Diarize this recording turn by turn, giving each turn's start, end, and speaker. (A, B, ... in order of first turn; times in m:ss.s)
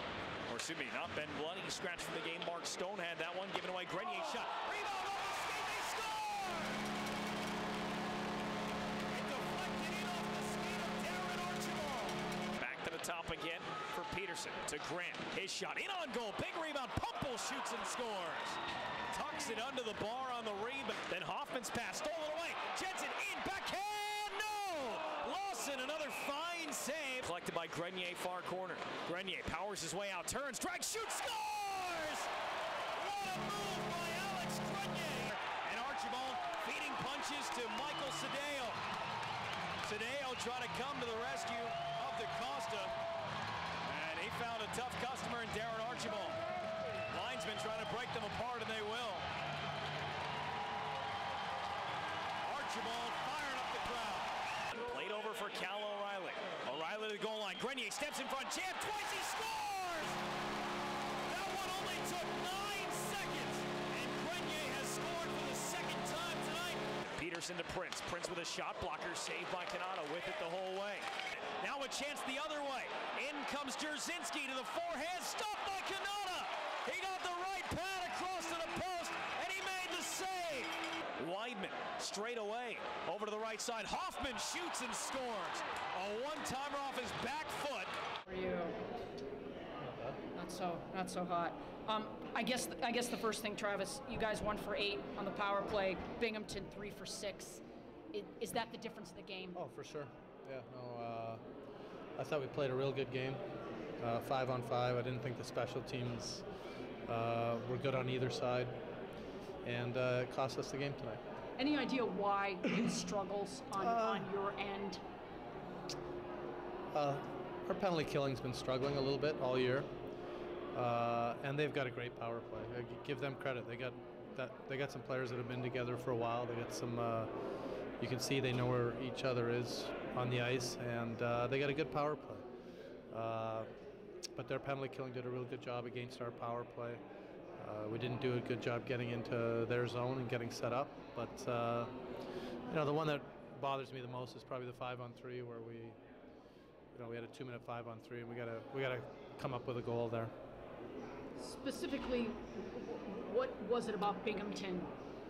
0:00.5-0:06.8 A
0:09.1-0:32.3 A
0:33.0-0:38.8 A
0:39.8-0:42.9 A
0:43.8-0:46.4 A
0:47.1-0:49.2 A
0:52.4-1:00.2 A
1:01.3-1:27.9 A
1:28.3-1:28.8 B
1:29.8-1:30.2 C
1:30.3-1:39.6 B
1:39.5-1:41.4 C
1:42.2-1:43.4 C
1:44.0-1:46.4 C
1:47.0-1:48.8 C
1:49.6-1:51.2 C
1:51.6-1:55.0 B
1:53.8-1:54.3 C
1:56.9-1:59.9 C
2:00.7-2:07.3 C
2:08.0-2:12.4 C
2:13.1-2:13.7 C
2:14.3-2:17.0 C
2:17.6-2:21.9 C
2:22.7-2:26.0 C
2:26.9-2:30.3 C
2:31.4-2:34.9 B